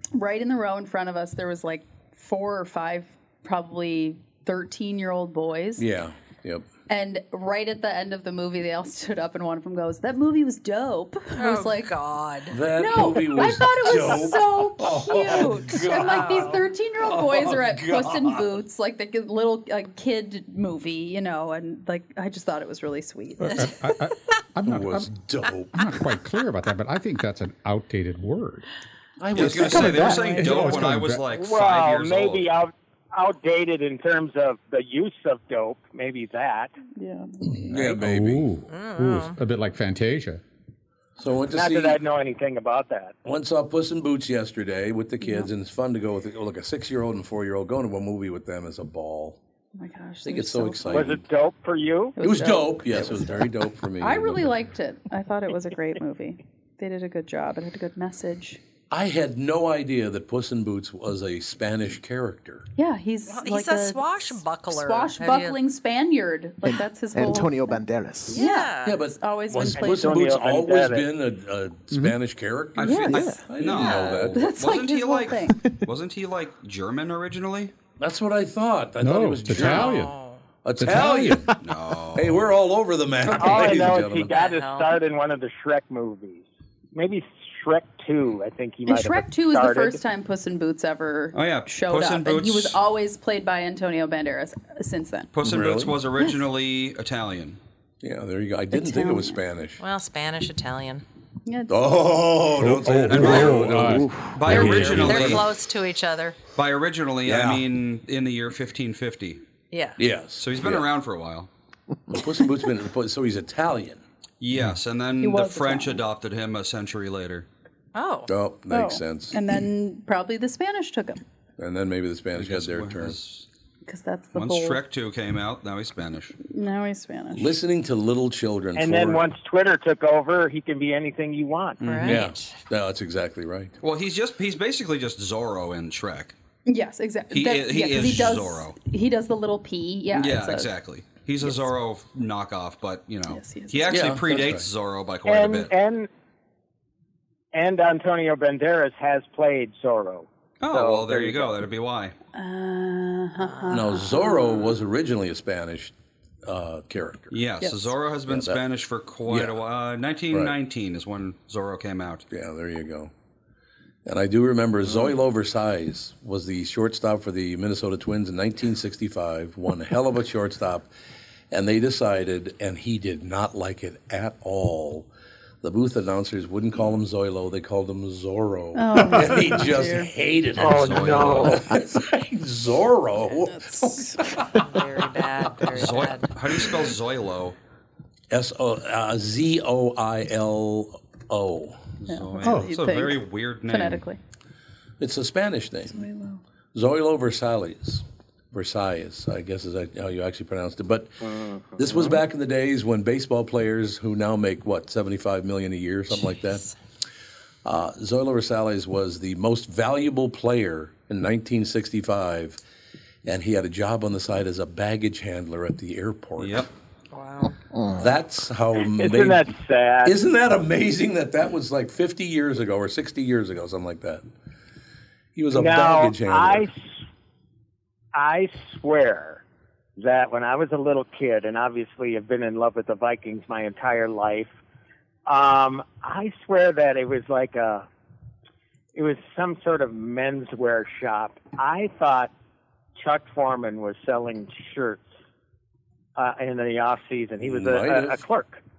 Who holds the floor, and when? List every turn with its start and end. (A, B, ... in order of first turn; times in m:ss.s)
0:00.1-0:05.8 A
0:05.8-0:06.7 B
0:06.9-0:11.9 A
0:11.4-0:12.6 C
0:12.5-0:18.6 B
0:12.7-0:23.7 A
0:23.4-0:25.1 D
0:24.6-0:25.9 B
0:25.7-0:28.6 D
0:29.2-0:30.2 B
0:29.3-0:32.5 E
0:29.4-0:30.3 F
0:29.9-0:31.2 D
0:30.1-0:30.4 A
0:31.2-0:36.7 G
0:36.9-0:37.6 A
0:37.6-0:40.4 D
0:37.6-0:38.5 B
0:38.7-0:39.4 C
0:41.2-0:42.0 B
0:41.5-0:43.1 G
0:43.2-0:49.4 B
0:45.2-0:45.5 A
0:49.7-0:51.1 A
0:50.2-0:51.2 B
0:50.9-0:52.2 G
0:52.2-0:58.6 A
0:52.2-0:54.6 B
0:58.9-1:02.6 B
1:02.8-1:10.3 A
1:03.3-1:05.6 C
1:06.6-1:08.4 F
1:08.3-1:09.0 C
1:08.8-1:14.4 B
1:09.8-1:11.1 G
1:12.8-1:17.7 E
1:12.8-1:13.4 A
1:13.1-1:13.4 F
1:13.7-1:14.2 C
1:14.3-1:15.6 A
1:18.0-1:20.0 B
1:19.0-1:20.1 D
1:19.5-1:20.4 C
1:20.6-1:21.6 B
1:20.8-1:21.5 D
1:21.6-1:22.4 E
1:22.1-1:24.4 B
1:23.3-1:30.0 G
1:23.4-1:25.0 C
1:28.9-1:35.3 A
1:31.3-1:32.8 E
1:35.3-1:37.6 E
1:35.4-1:36.0 B
1:38.0-1:39.8 B
1:38.7-1:39.4 A
1:39.8-1:41.0 C
1:41.4-1:41.8 A
1:41.7-1:45.4 B
1:42.6-1:45.1 D
1:43.1-1:45.4 E
1:44.5-1:46.4 C
1:46.6-1:49.4 E
1:47.2-1:47.6 B
1:49.7-1:50.0 C
1:50.0-1:50.8 B
1:50.4-1:51.5 E
1:52.1-1:54.0 B
1:54.4-1:57.5 E
1:55.2-1:56.0 A
1:57.9-1:58.3 C
1:58.3-1:59.4 B
1:58.7-2:01.2 A
2:01.6-2:03.2 B
2:02.4-2:03.5 E
2:03.9-2:04.8 A
2:04.3-2:06.4 E
2:06.4-2:07.6 A
2:07.3-2:09.2 B
2:08.8-2:11.8 G
2:11.8-2:12.6 C
2:11.8-2:12.2 E
2:12.0-2:13.7 B
2:13.8-2:16.4 E
2:16.6-2:20.7 A
2:17.3-2:18.8 E
2:20.1-2:25.7 E
2:23.3-2:24.1 A
2:23.9-2:24.6 B
2:25.2-2:26.1 G
2:27.5-2:31.6 G
2:30.6-2:32.1 E
2:32.3-2:34.8 A
2:33.4-2:33.7 C
2:33.7-2:35.9 B
2:36.4-2:37.4 B
2:37.3-2:42.2 E
2:37.6-2:37.9 A
2:38.3-2:38.6 B
2:39.3-2:39.6 B
2:42.3-2:43.1 B
2:44.0-2:50.9 B
2:51.5-2:55.1 B
2:55.6-3:04.6 B
2:58.7-3:00.1 A
3:00.6-3:01.6 G
3:00.6-3:01.6 E
3:03.4-3:04.4 A
3:04.5-3:06.3 C
3:05.7-3:07.6 E
3:08.3-3:11.8 B
3:12.0-3:14.1 E
3:12.1-3:14.2 A
3:12.4-3:12.7 D
3:15.0-3:16.1 B
3:15.9-3:16.4 A
3:16.7-3:26.6 B
3:21.2-3:22.2 G
3:27.6-3:32.6 B
3:33.2-3:36.7 B
3:36.4-3:36.7 E
3:37.1-3:37.6 C
3:37.7-3:38.1 F
3:38.0-3:39.5 B
3:38.9-3:40.2 G
3:40.0-3:44.2 B
3:45.4-3:46.7 B
3:45.5-3:46.9 G
3:48.1-3:49.4 G
3:50.0-3:54.5 G
3:55.2-3:57.9 G
3:58.9-4:02.3 G
4:03.0-4:05.0 G
4:06.2-4:08.6 G
4:07.4-4:08.2 B